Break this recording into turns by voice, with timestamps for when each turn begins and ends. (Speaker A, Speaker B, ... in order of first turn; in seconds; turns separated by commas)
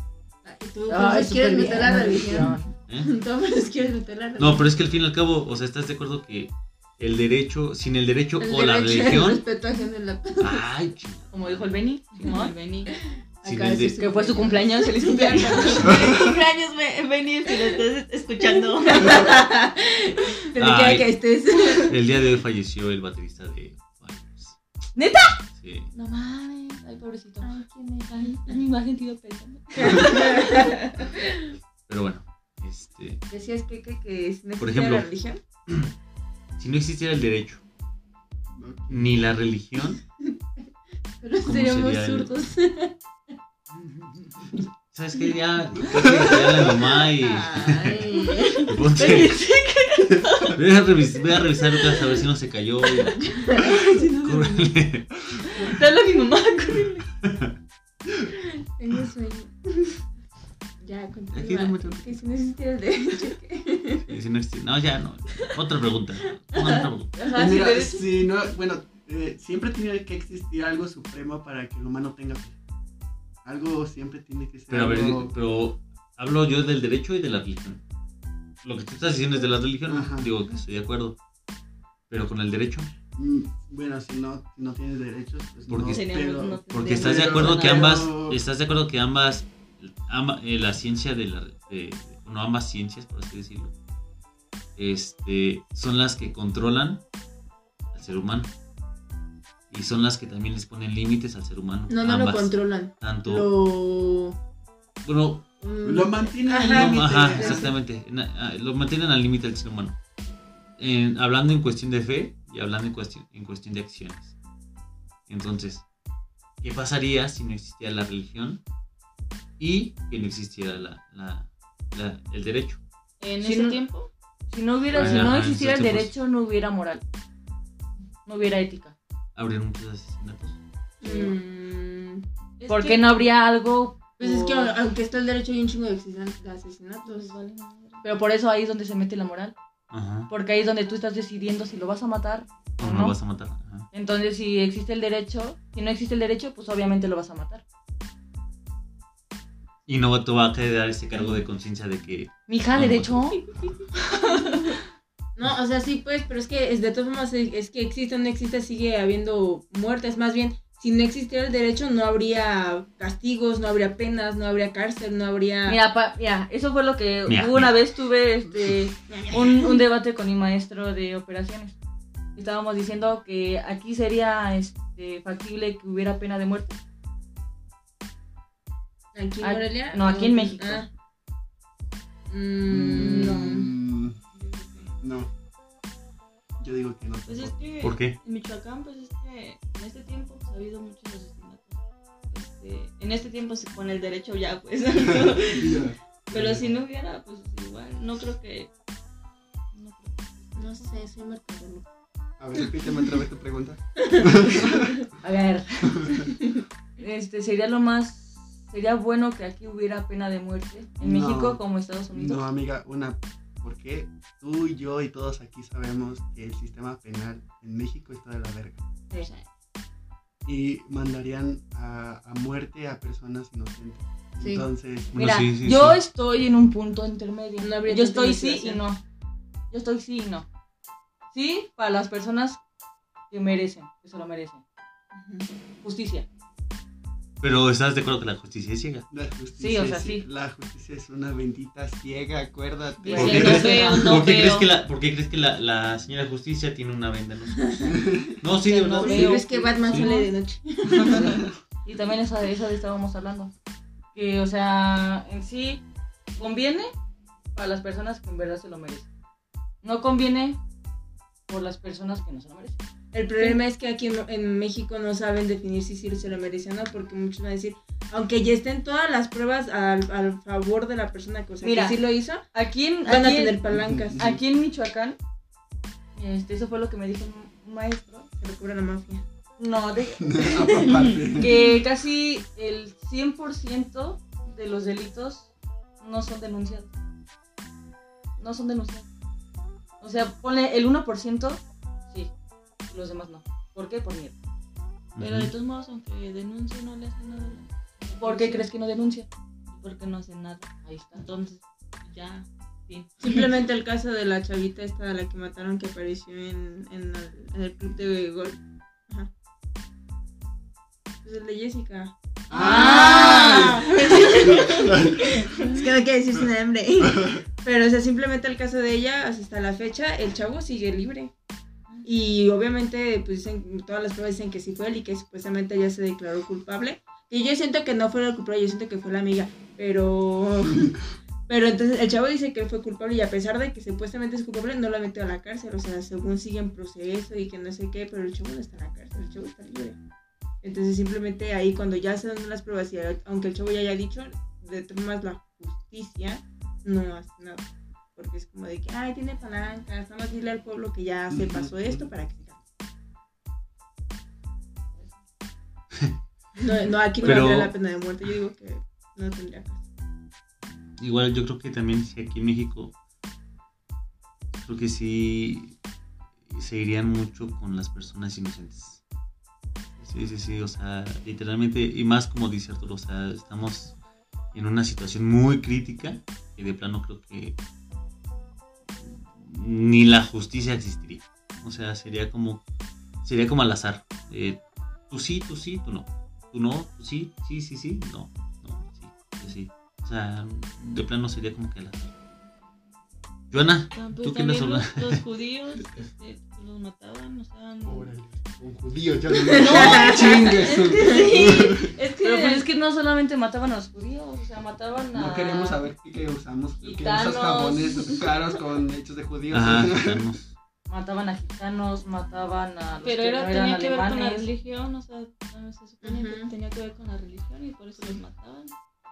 Speaker A: 0.4-4.7, Speaker B: 0.9-2.7, Speaker C: 4.4-9.4, Speaker A: 8.4-10.6, Speaker C: 10.4-11.8, Speaker B: 11.3-12.5, Speaker D: 12.2-12.9, Speaker A: 13.4-16.3, Speaker C: 13.4-14.0, Speaker B: 14.0-15.9, Speaker C: 15.3-16.1, Speaker D: 15.8-19.3, Speaker A: 18.5-22.1, Speaker C: 20.6-21.2, Speaker C: 21.8-24.6, Speaker B: 24.9-25.4, Speaker C: 25.5-25.9, Speaker B: 25.9-30.6, Speaker A: 27.4-28.6, Speaker A: 29.8-31.2, Speaker C: 31.9-33.2, Speaker A: 33.3-35.4, Speaker C: 34.6-35.1, Speaker C: 35.7-35.9, Speaker C: 36.6-37.6, Speaker E: 38.6-39.2, Speaker C: 38.9-40.0, Speaker A: 41.2-42.9, Speaker C: 41.4-42.4, Speaker C: 44.9-48.0, Speaker A: 46.6-49.0, Speaker C: 48.6-49.4, Speaker D: 49.0-50.6, Speaker B: 49.0-50.0, Speaker C: 50.5-55.5, Speaker A: 53.3-54.7, Speaker D: 55.6-56.9, Speaker B: 56.1-56.9, Speaker C: 57.2-57.5, Speaker A: 58.6-60.0, Speaker A: 60.8-64.1, Speaker C: 61.3-62.2, Speaker C: 64.1-67.1, Speaker A: 66.5-68.0, Speaker B: 67.2-68.0, Speaker E: 67.3-72.6, Speaker E: 73.4-75.3, Speaker C: 74.7-77.8, Speaker C: 78.6-81.2, Speaker E: 79.8-80.4, Speaker C: 82.1-82.9, Speaker E: 83.1-88.4, Speaker C: 85.7-86.0, Speaker D: 85.9-88.1, Speaker C: 86.7-93.7, Speaker C: 94.8-97.0, Speaker C: 97.9-98.5, Speaker C: 99.7-103.5, Speaker A: 101.9-104.3, Speaker C: 105.0-105.5, Speaker A: 105.6-107.8, Speaker E: 105.8-107.7, Speaker C: 106.7-110.0, Speaker C: 110.8-114.3, Speaker C: 115.3-115.8, Speaker C: 116.6-118.6, Speaker C: 119.6-122.8, Speaker D: 123.2-124.1, Speaker B: 123.4-123.8, Speaker B: 124.5-127.0, Speaker C: 124.9-126.1, Speaker B: 128.2-128.9, Speaker C: 129.3-130.6, Speaker A: 131.0-132.2, Speaker B: 131.0-131.3, Speaker D: 132.6-133.2, Speaker B: 132.7-134.8, Speaker A: 134.2-137.3, Speaker D: 137.0-138.0, Speaker B: 138.0-139.5, Speaker C: 139.9-140.3, Speaker B: 140.3-143.2, Speaker C: 142.8-143.9, Speaker B: 143.9-147.6, Speaker C: 149.9-153.4, Speaker B: 152.5-153.4, Speaker B: 154.1-154.6, Speaker A: 155.3-165.8, Speaker B: 165.7-171.7, Speaker C: 167.2-167.7, Speaker A: 169.1-169.8, Speaker B: 172.3-176.8, Speaker A: 179.1-180.9, Speaker B: 179.4-180.8, Speaker A: 182.3-183.7, Speaker E: 182.7-184.2, Speaker D: 184.3-185.0, Speaker E: 185.0-185.3, Speaker E: 186.6-187.6, Speaker D: 187.2-191.8, Speaker C: 187.8-188.2, Speaker D: 192.3-198.7, Speaker E: 195.0-196.8, Speaker D: 199.7-200.9, Speaker A: 200.6-201.8, Speaker E: 202.4-205.0, Speaker B: 205.2-206.3, Speaker E: 206.0-206.3, Speaker B: 207.0-212.4, Speaker E: 211.0-218.8, Speaker D: 219.1-219.4, Speaker E: 220.4-225.1, Speaker A: 224.4-224.7, Speaker C: 225.1-226.0, Speaker B: 225.2-229.0, Speaker A: 227.6-228.8, Speaker B: 229.7-230.4, Speaker B: 231.3-232.6, Speaker B: 233.3-234.6, Speaker A: 235.1-235.5, Speaker B: 235.8-236.2, Speaker C: 237.4-239.1, Speaker E: 239.1-243.7, Speaker B: 239.6-240.3, Speaker B: 243.0-244.2, Speaker C: 243.1-250.0, Speaker D: 243.2-244.7, Speaker A: 247.6-247.9, Speaker E: 248.0-248.3, Speaker B: 248.6-250.3, Speaker A: 248.9-251.4, Speaker E: 251.1-251.5, Speaker B: 251.8-253.5, Speaker B: 254.1-255.8, Speaker B: 256.4-256.9, Speaker B: 257.5-259.1, Speaker B: 259.8-260.6, Speaker B: 261.5-262.8, Speaker A: 263.1-272.4, Speaker B: 271.6-272.0, Speaker B: 272.5-273.6, Speaker A: 273.1-274.3, Speaker E: 273.6-274.4, Speaker B: 274.1-275.2, Speaker B: 276.1-278.3, Speaker A: 278.4-279.2, Speaker B: 279.6-286.9, Speaker E: 280.2-281.6, Speaker D: 280.9-281.1, Speaker B: 288.4-289.1, Speaker B: 290.0-292.3, Speaker B: 292.9-294.3, Speaker C: 295.1-295.5, Speaker D: 295.2-298.7, Speaker B: 298.2-299.3, Speaker D: 299.7-303.4, Speaker B: 300.9-301.2, Speaker A: 303.2-308.6, Speaker A: 311.2-315.0, Speaker E: 312.5-313.9, Speaker D: 312.5-315.8, Speaker B: 312.5-313.7, Speaker E: 314.4-315.4, Speaker A: 315.5-321.3, Speaker E: 317.1-317.4, Speaker A: 322.0-340.0, Speaker A: 340.6-352.6, Speaker E: 351.3-352.1, Speaker A: 356.6-359.8, Speaker C: 357.2-357.7, Speaker C: 361.0-362.9, Speaker C: 364.5-365.8, Speaker C: 366.4-369.0, Speaker C: 370.0-373.9, Speaker C: 374.5-377.6, Speaker C: 379.0-382.6, Speaker C: 383.2-392.1, Speaker C: 393.5-395.2, Speaker D: 393.9-398.1, Speaker E: 397.8-401.9, Speaker A: 399.5-400.5, Speaker D: 399.6-402.6, Speaker B: 402.2-405.8, Speaker E: 405.1-410.2, Speaker B: 406.8-408.1, Speaker C: 409.5-410.5, Speaker B: 410.9-414.5, Speaker D: 413.0-418.7, Speaker A: 416.0-416.5